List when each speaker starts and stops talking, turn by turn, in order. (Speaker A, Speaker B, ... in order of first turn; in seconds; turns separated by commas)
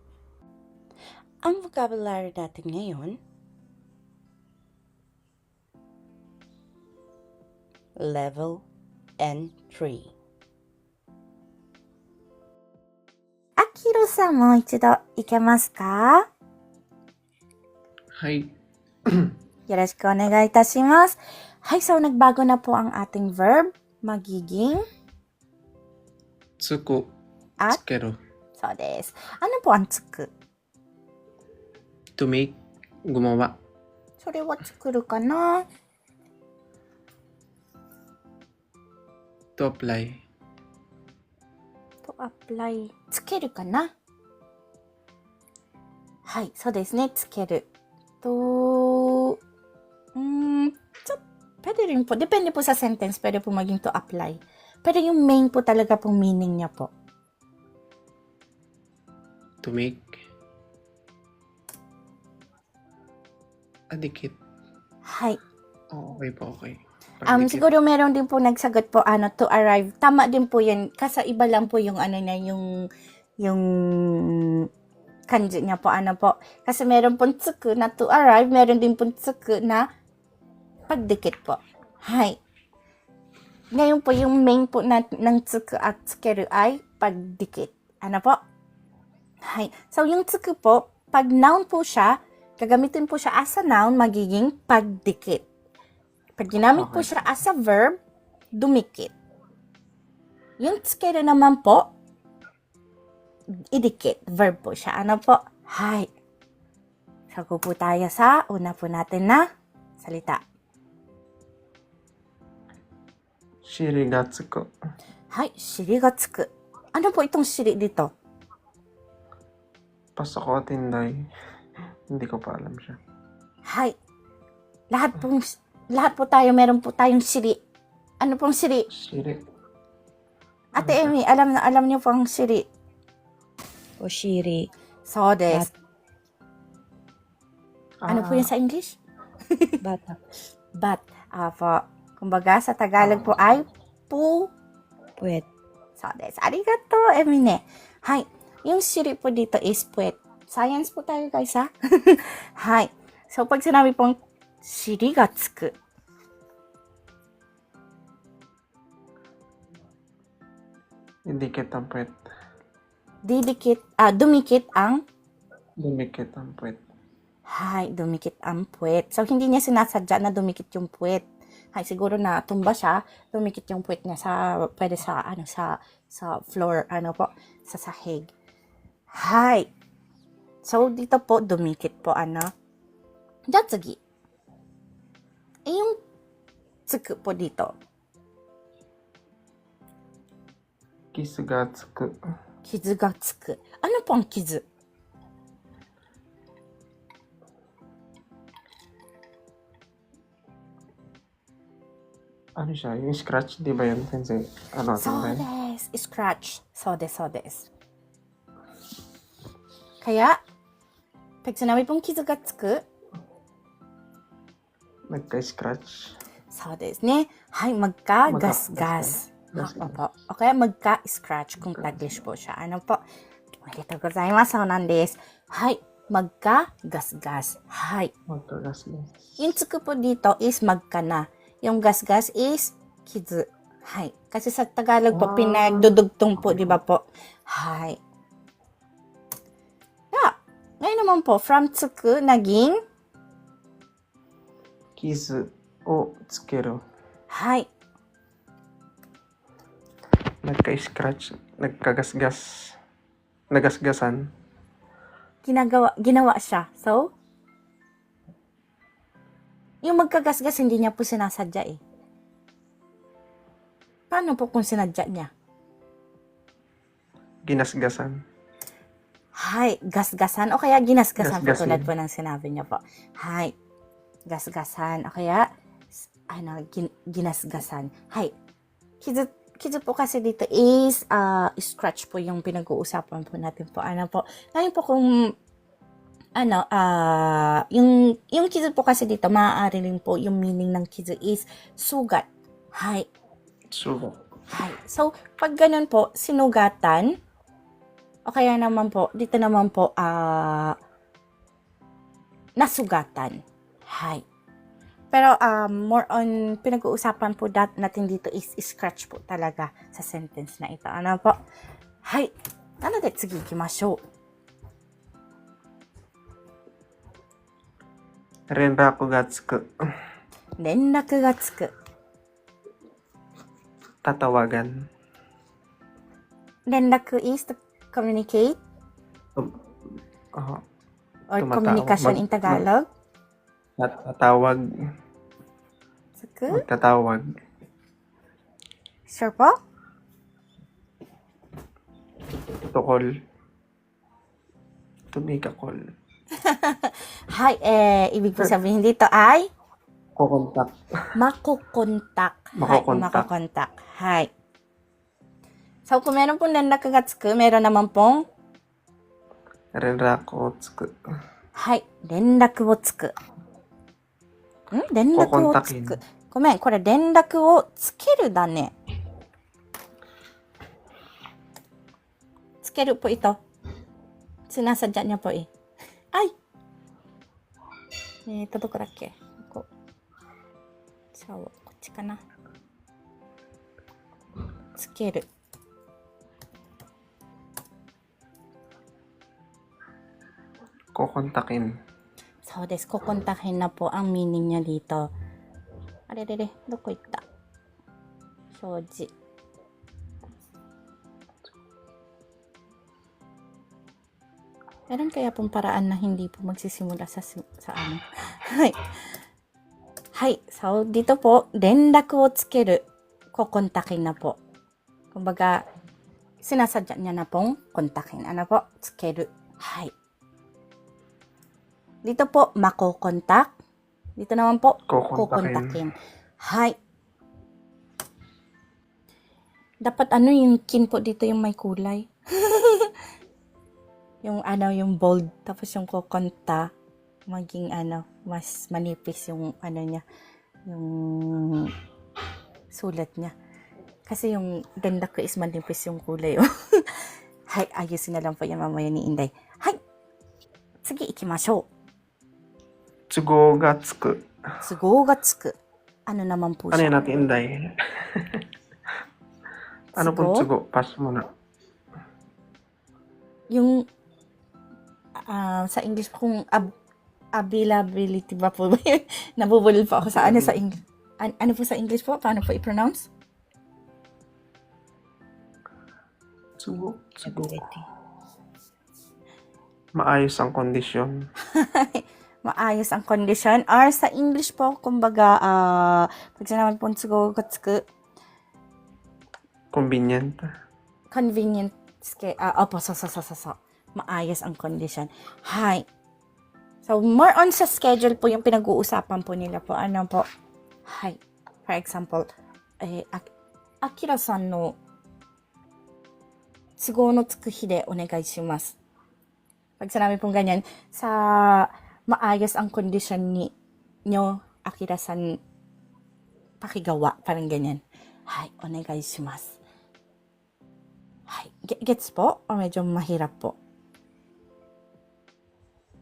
Speaker A: 1.4-3.2, Speaker A: 8.0-8.6, Speaker A: 9.2-10.1, Speaker B: 13.6-16.2, Speaker C: 18.1-18.5, Speaker C: 19.1-19.3, Speaker B: 19.7-24.8, Speaker C: 26.6-27.1, Speaker C: 27.7-28.2, Speaker B: 28.6-30.3, Speaker C: 32.2-33.5, Speaker B: 34.2-35.6, Speaker C: 39.6-40.2, Speaker B: 42.0-43.9, Speaker B: 46.3-47.7, Speaker B: 48.2-49.4, Speaker B: 50.1-56.9, Speaker C: 59.6-60.2, Speaker C: 63.9-64.3, Speaker B: 65.0-65.4, Speaker C: 65.9-67.7, Speaker B: 67.2-72.7, Speaker B: 73.4-74.7, Speaker B: 75.3-79.9, Speaker B: 80.9-82.4, Speaker B: 83.7-88.4, Speaker B: 89.4-95.4, Speaker B: 96.4-98.0, Speaker C: 96.7-97.3, Speaker B: 98.5-99.1, Speaker B: 100.6-101.9, Speaker B: 103.7-106.1, Speaker B: 107.3-109.5, Speaker B: 110.0-110.4, Speaker C: 113.6-114.7, Speaker B: 115.3-118.1, Speaker C: 120.2-121.3, Speaker C: 122.1-123.0, Speaker B: 123.7-124.0, Speaker B: 124.9-127.6, Speaker B: 128.2-128.9, Speaker C: 128.9-129.4, Speaker B: 130.7-132.7, Speaker C: 130.8-131.1, Speaker A: 134.0-134.7, Speaker B: 135.1-135.7, Speaker C: 138.0-138.5, Speaker B: 138.1-139.0, Speaker B: 139.5-139.8, Speaker A: 139.8-140.2, Speaker B: 140.8-144.5, Speaker C: 143.0-143.3, Speaker A: 145.2-145.4, Speaker B: 146.0-155.8, Speaker C: 161.3-162.2, Speaker B: 163.2-165.0, Speaker C: 165.8-166.8, Speaker B: 167.5-178.3, Speaker B: 179.1-179.7, Speaker B: 180.6-182.5, Speaker B: 183.5-184.0, Speaker B: 185.7-186.0, Speaker B: 186.9-187.7, Speaker C: 191.1-192.2, Speaker B: 192.6-194.6, Speaker C: 202.6-205.4, Speaker B: 205.0-207.7, Speaker B: 210.0-210.4, Speaker B: 211.4-212.8, Speaker C: 215.1-216.2, Speaker B: 216.5-223.0, Speaker C: 218.3-220.0, Speaker C: 221.7-222.1, Speaker B: 223.6-228.1, Speaker C: 228.3-229.1, Speaker B: 229.4-238.0, Speaker C: 235.1-236.8, Speaker B: 240.1-242.8, Speaker C: 245.0-246.8, Speaker B: 247.3-247.7, Speaker C: 250.4-252.8, Speaker C: 253.5-254.3, Speaker B: 255.4-257.1, Speaker B: 259.8-261.8, Speaker B: 264.1-265.3, Speaker C: 267.4-268.2, Speaker B: 269.3-273.5, Speaker C: 271.2-271.9, Speaker B: 274.3-275.5, Speaker B: 276.3-278.3, Speaker B: 279.0-285.3, Speaker B: 286.4-293.1, Speaker C: 293.7-294.2, Speaker B: 294.5-297.1, Speaker B: 298.2-300.8, Speaker B: 302.6-304.2, Speaker B: 305.1-311.4, Speaker B: 312.0-314.0, Speaker C: 318.5-319.7, Speaker B: 320.6-321.7, Speaker C: 324.0-324.9, Speaker B: 326.7-328.6, Speaker C: 330.3-330.6, Speaker B: 331.3-332.9, Speaker C: 331.4-332.6, Speaker C: 333.8-334.6, Speaker B: 336.2-336.6, Speaker C: 336.5-337.2, Speaker B: 339.1-339.6, Speaker C: 342.6-343.1, Speaker C: 345.1-345.8, Speaker B: 346.4-349.5, Speaker C: 350.2-350.7, Speaker B: 351.1-354.3, Speaker C: 352.6-353.3, Speaker B: 355.9-358.2, Speaker C: 359.7-361.0, Speaker B: 361.6-363.1, Speaker B: 364.7-368.7, Speaker C: 365.1-366.0, Speaker B: 372.6-373.4, Speaker B: 374.5-375.5, Speaker B: 378.3-379.6, Speaker B: 381.1-382.2, Speaker B: 384.8-385.2, Speaker C: 390.9-391.7, Speaker B: 392.5-395.1, Speaker B: 396.1-397.2, Speaker B: 398.6-399.1, Speaker B: 404.9-408.8, Speaker B: 410.1-412.8, Speaker B: 413.3-414.4, Speaker B: 415.1-415.6, Speaker B: 416.4-419.9, Speaker B: 422.0-423.5, Speaker B: 424.2-426.8, Speaker C: 424.9-425.8, Speaker B: 429.8-432.9, Speaker B: 434.2-436.7, Speaker B: 437.3-440.0, Speaker B: 440.7-441.7, Speaker B: 442.7-443.3, Speaker B: 444.1-449.8, Speaker B: 450.8-451.6, Speaker C: 453.1-454.2, Speaker B: 454.6-455.5, Speaker B: 456.1-457.2, Speaker C: 456.7-458.4, Speaker B: 459.9-460.5, Speaker C: 460.0-461.3, Speaker B: 463.5-463.9, Speaker B: 465.3-466.7, Speaker B: 467.4-473.1, Speaker C: 470.0-470.6, Speaker C: 476.6-477.7, Speaker C: 479.9-481.3, Speaker B: 481.5-487.8, Speaker C: 489.7-490.5, Speaker B: 491.1-495.8, Speaker B: 496.8-500.2, Speaker B: 500.9-502.3, Speaker B: 502.8-503.3, Speaker B: 503.8-504.8, Speaker B: 506.8-508.7, Speaker B: 509.8-513.5, Speaker B: 514.0-515.4, Speaker B: 516.6-519.6, Speaker B: 521.3-523.5